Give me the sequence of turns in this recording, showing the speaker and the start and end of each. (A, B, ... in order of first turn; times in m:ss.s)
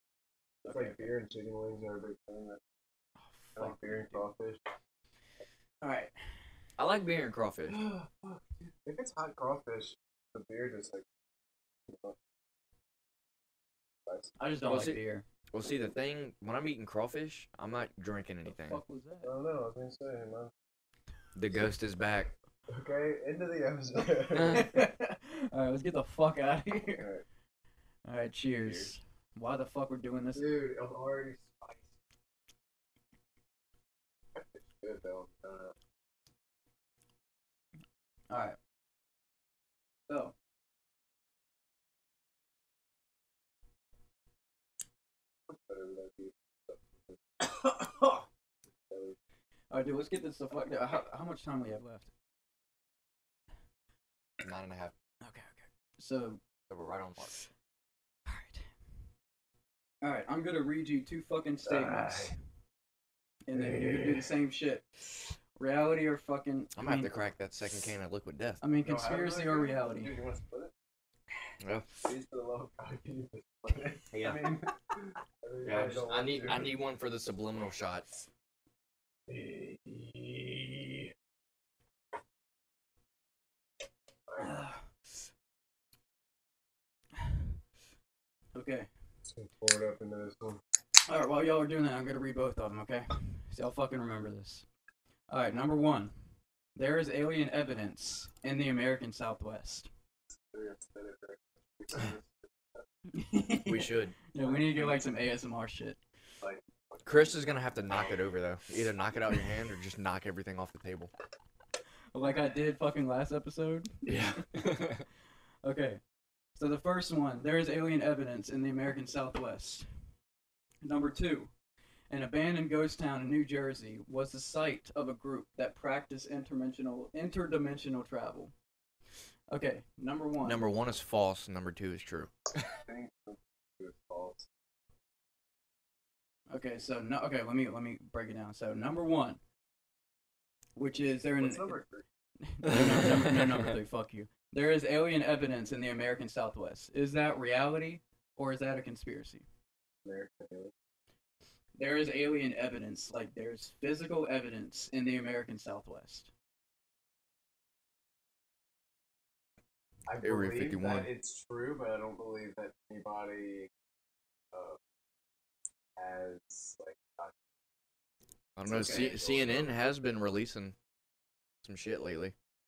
0:00.6-0:01.1 A
0:00.6-0:02.6 B
0:03.2-0:04.3 A
0:03.6-0:04.6 B
0:05.8-0:06.1 A
0:06.8-0:07.8 C
0:07.7-0:11.0 B
0:11.9-0:12.2 B
0:14.1-0:14.4 B
0:14.4-0:15.2 A
0:14.7-0:15.0 C
0:15.5-0:18.8 C
0:18.5-0:19.3 A
0:19.2-0:20.5 B
0:21.4-0:22.3 C
0:22.7-0:24.7 B
0:24.3-0:24.7 C
0:24.5-0:27.1 A
0:27.0-0:27.2 B
0:28.0-0:30.5 A
0:30.4-0:31.9 B
0:34.4-0:35.7 B
0:38.3-0:38.6 A
0:40.1-0:40.3 A
0:45.5-0:48.2 B
0:48.9-0:49.2 B
0:49.7-0:52.1 A
0:54.4-0:54.9 C
0:55.2-0:56.4 A
0:56.7-0:57.3 C
0:58.3-0:58.7 A
1:00.0-1:02.3 A
1:01.7-1:02.3 B
1:03.5-1:07.1 A
1:03.5-1:04.3 B
1:06.8-1:08.6 C
1:08.6-1:10.2 A
1:08.8-1:10.7 B
1:11.6-1:11.9 C
1:12.0-1:16.7 B
1:14.1-1:14.5 C
1:15.6-1:18.1 C
1:19.3-1:21.1 B
1:24.3-1:24.7 B
1:24.4-1:25.1 A
1:28.6-1:28.9 A
1:29.3-1:30.6 B
1:31.1-1:34.7 A
1:35.3-1:36.1 A
1:36.8-1:39.9 A
1:40.5-1:42.8 B
1:43.1-1:46.0 A
1:43.7-1:44.2 C
1:44.4-1:45.1 B
1:46.4-1:48.1 B
1:47.0-1:51.1 C
1:52.1-1:54.3 A
1:54.1-1:55.0 C
1:55.6-1:56.0 A
1:56.6-1:59.9 A
2:00.8-2:01.5 A
2:02.1-2:08.5 A
2:09.5-2:10.6 A
2:10.4-2:12.3 C
2:12.7-2:14.5 B
2:16.5-2:19.4 A
2:20.8-2:21.8 A
2:21.4-2:22.0 B
2:22.4-2:29.5 A
2:22.7-2:23.7 C
2:30.0-2:30.7 B
2:31.8-2:36.3 A
2:40.1-2:43.7 B
2:40.2-2:41.1 C
2:44.5-2:44.8 B
2:46.0-2:47.3 B
2:48.6-2:50.8 C
2:48.7-2:49.8 B
2:48.8-2:49.1 A
2:51.6-2:52.4 C